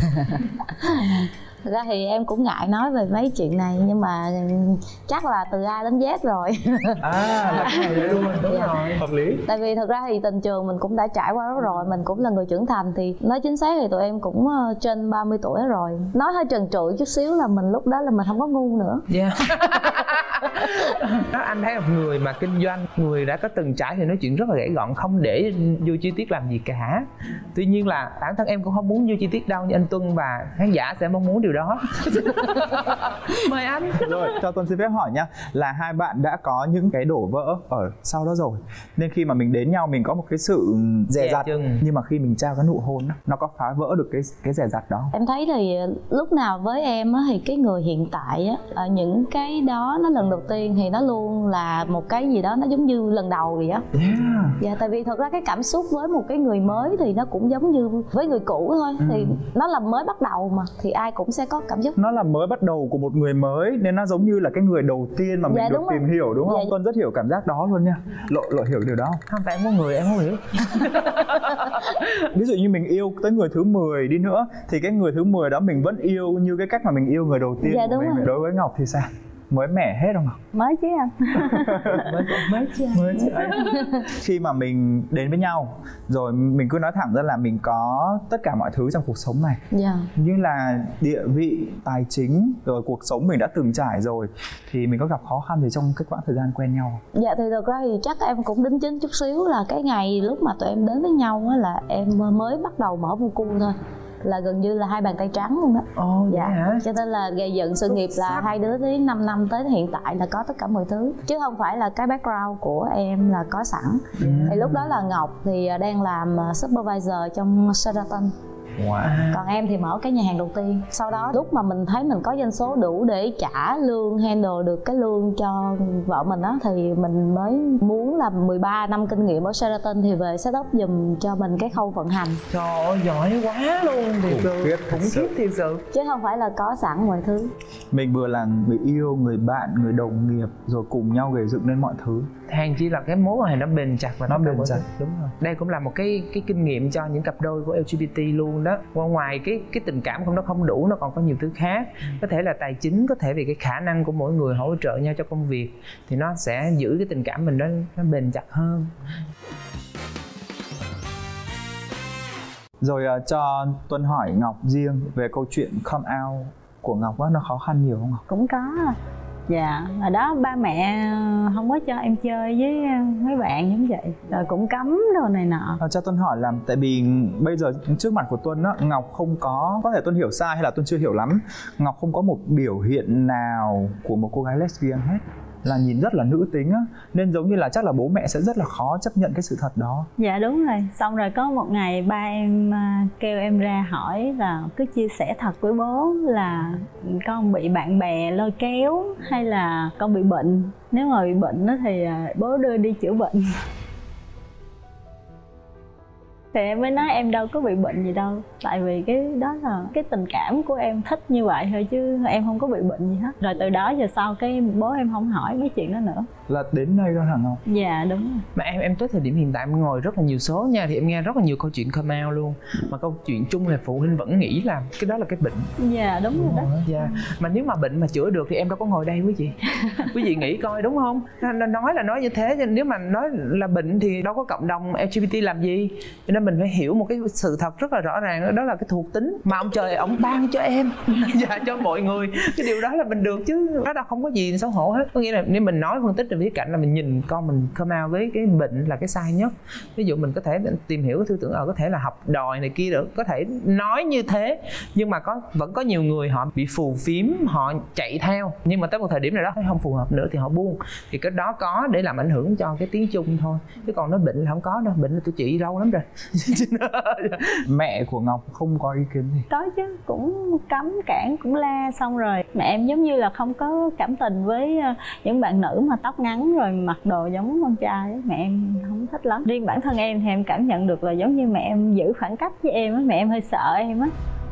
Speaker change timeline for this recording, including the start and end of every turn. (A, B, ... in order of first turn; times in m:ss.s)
0:00.3-0:08.8 A
0:07.0-0:09.4 B
0:07.7-0:09.0 C
0:09.4-0:19.1 A
0:19.1-0:34.4 C
0:34.0-0:45.1 B
0:41.2-0:41.8 C
0:45.1-0:53.8 A
0:53.9-0:54.6 B
0:54.6-1:02.0 A
0:59.0-0:59.4 B
1:02.0-1:09.2 B
1:05.5-1:06.7 A
1:09.3-1:12.2 C
1:12.3-1:20.4 B
1:17.6-1:18.3 A
1:20.5-1:22.1 D
1:21.4-1:29.6 B
1:21.9-1:23.1 C
1:23.5-1:23.9 A
1:29.7-1:30.1 A
1:30.2-1:37.0 B
1:37.1-1:58.3 A
1:46.0-1:46.8 C
1:47.9-1:48.5 C
1:54.2-1:54.8 C
1:58.8-1:59.2 B
1:59.0-1:59.4 C
1:59.3-2:12.4 A
2:12.5-2:15.8 C
2:14.3-2:15.3 B
2:15.9-2:17.5 A
2:17.9-2:22.3 B
2:22.5-2:38.9 C
2:24.3-2:24.9 B
2:42.8-2:48.2 B
2:48.3-2:49.0 D
2:49.5-2:55.8 D
2:55.8-3:10.1 B
3:10.2-3:23.6 D
3:26.5-3:36.3 D
3:36.5-3:37.6 B
3:37.7-3:38.4 D
3:38.6-3:45.7 C
3:45.8-3:47.1 D
3:46.4-4:27.6 C
4:27.6-4:29.5 B
4:29.5-4:44.1 D